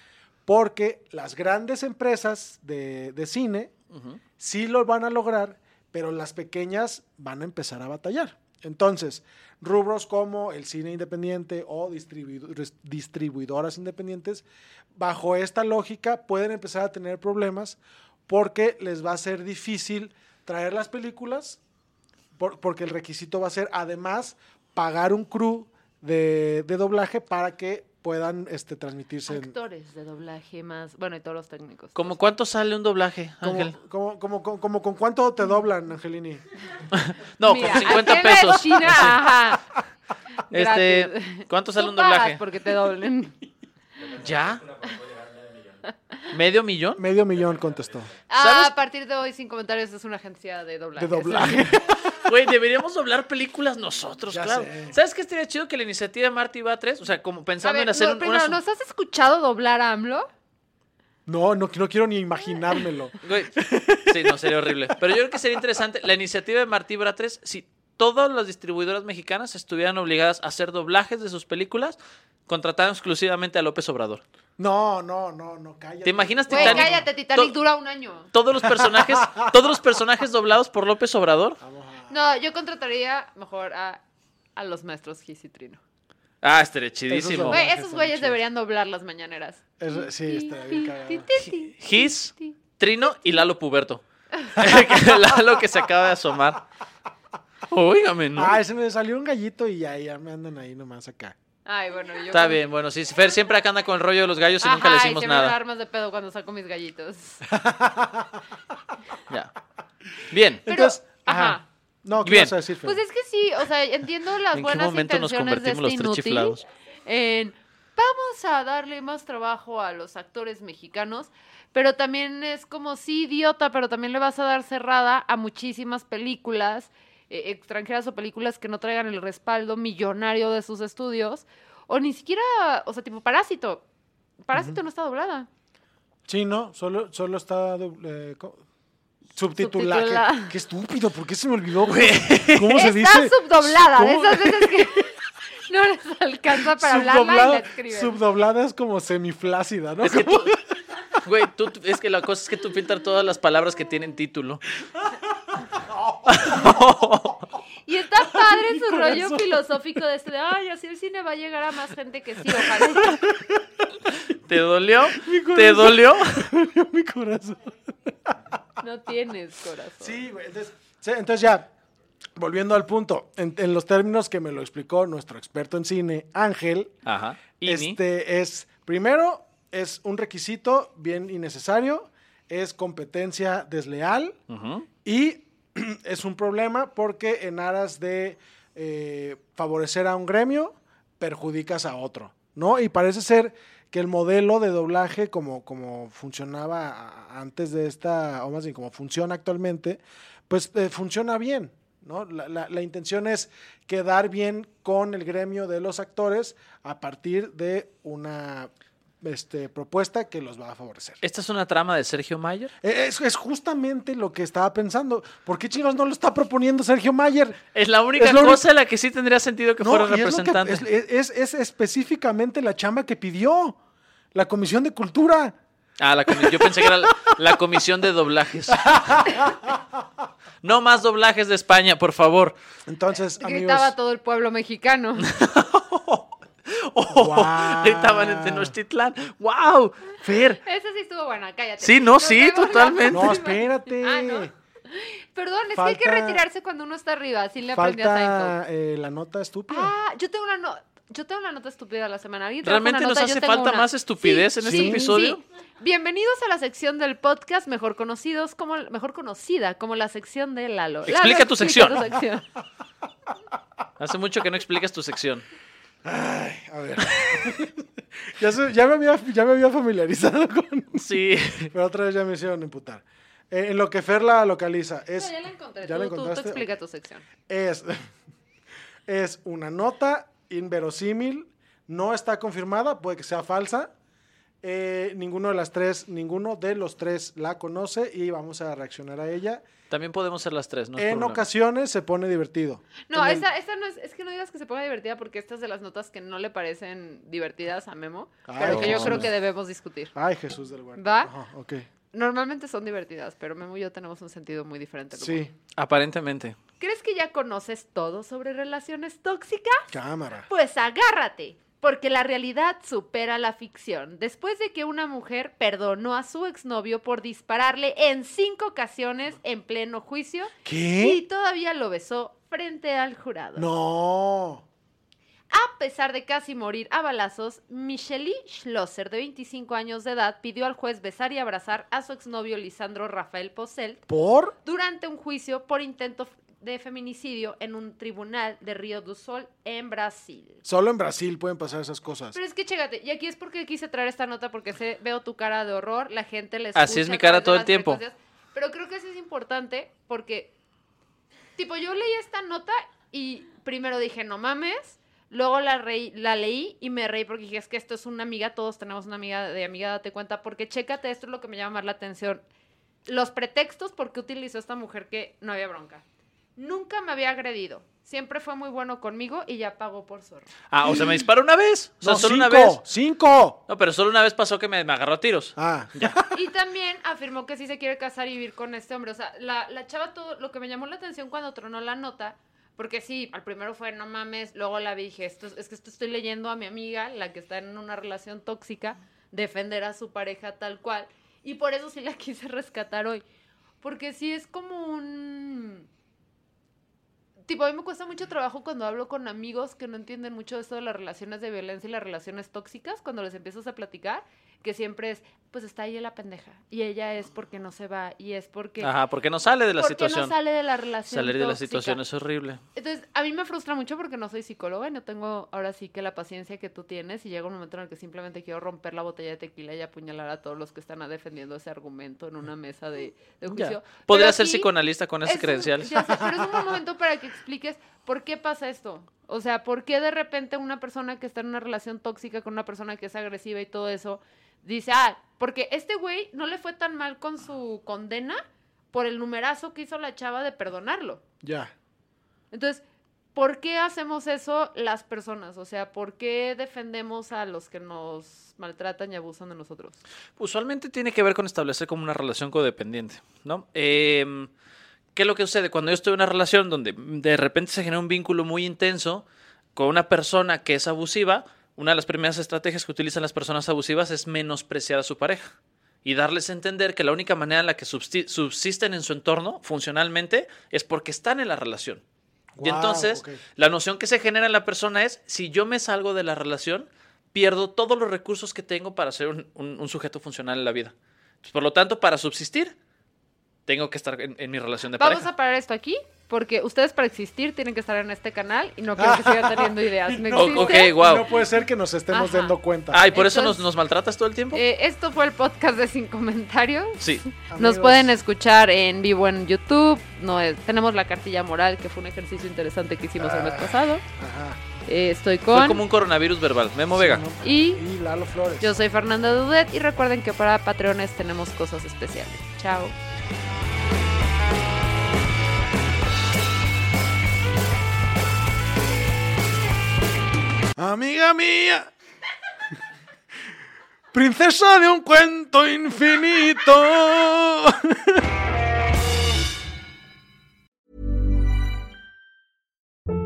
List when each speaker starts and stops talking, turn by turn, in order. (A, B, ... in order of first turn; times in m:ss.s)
0:00.4-0:03.7 A
0:03.9-0:04.2 B
0:04.4-0:21.6 A
0:22.4-0:29.5 A
0:29.3-0:32.2 C
0:31.9-0:33.7 B
0:33.4-0:36.4 A
0:36.9-0:39.2 B
0:37.4-0:39.6 C
0:40.5-0:43.4 C
0:40.5-0:42.4 B
0:44.2-0:44.8 B
0:45.9-0:46.2 C
0:46.3-0:47.0 B
0:47.0-0:48.1 A
0:48.3-0:51.8 C
0:48.4-0:48.7 B
0:51.0-0:52.1 A
0:52.1-0:58.6 B
0:54.3-0:55.0 A
0:57.6-1:00.3 C
1:01.2-1:05.2 A
1:03.2-1:14.2 B
1:14.6-1:17.1 A
1:16.0-1:17.5 B
1:16.5-1:18.3 C
1:18.3-1:21.6 B
1:18.6-1:19.5 A
1:21.6-1:22.2 A
1:22.1-1:24.0 C
1:24.6-1:25.8 C
1:26.4-1:27.6 B
1:27.1-1:28.4 A
1:27.5-1:32.6 C
1:29.8-1:31.3 A
1:31.4-1:36.6 B
1:37.7-1:38.6 B
1:38.3-1:41.3 A
1:41.6-1:42.6 C
1:42.3-1:45.5 B
1:44.6-1:47.4 C
1:47.4-1:48.4 A
1:50.3-1:50.6 B
1:50.6-1:53.0 A
1:50.7-1:51.6 C
1:52.2-1:52.5 B
1:52.8-2:13.8 C
1:54.5-1:56.6 B
2:14.4-2:15.5 C
2:14.5-2:14.8 A
2:16.3-2:18.6 A
2:19.3-2:24.9 A
2:19.6-2:20.5 C
2:21.8-2:22.8 B
2:22.7-2:28.2 C
2:26.8-2:30.6 A
2:30.0-2:30.5 B
2:31.2-2:34.6 B
2:35.7-2:36.8 A
2:36.2-2:37.4 B
2:37.8-2:43.2 C
2:38.3-2:39.6 A
2:43.1-2:43.5 A
2:44.3-2:46.5 B
2:45.1-2:48.6 A
2:48.8-2:50.2 C
2:50.0-2:51.7 A
2:52.4-2:56.9 A
2:57.0-2:58.0 B
2:57.6-3:04.4 A
3:04.5-3:04.9 B
3:05.0-3:31.2 A
3:31.2-3:32.7 B
3:32.8-3:37.6 A
3:37.7-3:40.8 B
3:38.2-3:38.6 A
3:39.8-3:43.8 A
3:44.3-3:45.6 A
3:46.0-3:49.5 B
3:46.3-3:47.1 A
3:48.7-3:49.8 A
3:50.6-3:52.5 B
3:52.8-3:53.9 A
3:53.4-3:55.3 C
3:55.2-4:00.6 B
3:57.1-3:58.7 A
4:00.6-4:08.5 C
4:01.8-4:03.4 B
4:03.1-4:04.5 A
4:05.8-4:06.4 A
4:07.7-4:09.9 A
4:09.7-4:22.5 C
4:12.6-4:15.4 B
4:14.6-4:15.1 A
4:21.0-4:22.0 B
4:24.0-4:25.4 B
4:26.0-4:31.1 A
4:31.0-4:31.7 B
4:31.7-4:36.7 A
4:35.2-4:37.2 C
4:37.5-4:38.0 A
4:39.1-4:43.9 A
4:44.6-4:49.6 A
4:49.9-4:51.4 B
4:51.0-4:53.4 A
4:53.1-5:00.1 C
4:58.5-4:59.3 A
4:58.6-4:59.3 B
5:00.1-5:01.9 A
5:01.0-5:01.3 C
5:02.1-5:05.4 C
5:05.1-5:05.5 A
5:05.8-5:06.6 B
5:06.8-5:09.9 C
5:09.9-5:10.5 A
5:10.5-5:23.7 C
5:20.6-5:21.2 A
5:23.6-5:24.6 A
5:25.5-5:34.0 C
5:34.1-5:34.5 A
5:34.6-5:40.6 C
5:40.6-5:42.4 A
5:42.3-5:50.5 C
5:46.7-5:48.0 B
5:51.6-6:02.4 C
6:03.0-6:06.0 C
6:06.6-6:10.5 C
6:10.7-6:12.8 B
6:10.9-6:11.2 A
6:12.0-6:13.6 A
6:13.7-6:16.2 B
6:15.6-6:16.3 A
6:16.3-6:33.2 C
6:33.8-6:35.9 C
6:37.4-6:48.9 C
6:48.8-6:50.3 B
6:49.8-6:52.0 C
6:51.1-6:52.6 B
6:52.7-7:04.7 C
7:03.5-7:06.0 B
7:05.2-7:18.4 C
7:06.1-7:06.5 A
7:18.9-7:21.2 C
7:21.4-7:21.7 A
7:22.5-7:22.8 C
7:23.3-7:30.0 C
7:30.4-7:34.5 B
7:35.1-7:39.2 B
7:39.8-7:45.5 B
7:46.0-7:52.0 B
7:52.6-7:53.4 A
7:52.6-8:02.7 B
8:03.7-8:05.3 B
8:05.0-8:11.0 C
8:09.0-8:13.0 A
8:10.3-8:11.2 B
8:12.1-8:12.5 C
8:12.9-8:14.6 B
8:13.1-8:13.6 C
8:14.5-8:17.0 C
8:17.0-8:17.2 B
8:17.5-8:18.1 A
8:17.6-8:24.0 C
8:23.2-8:24.6 A
8:24.8-8:25.8 C
8:25.5-8:27.2 B
8:26.9-8:28.7 A
8:27.4-8:27.8 C
8:28.6-8:32.9 C
8:40.8-8:41.9 A
8:44.1-8:48.2 A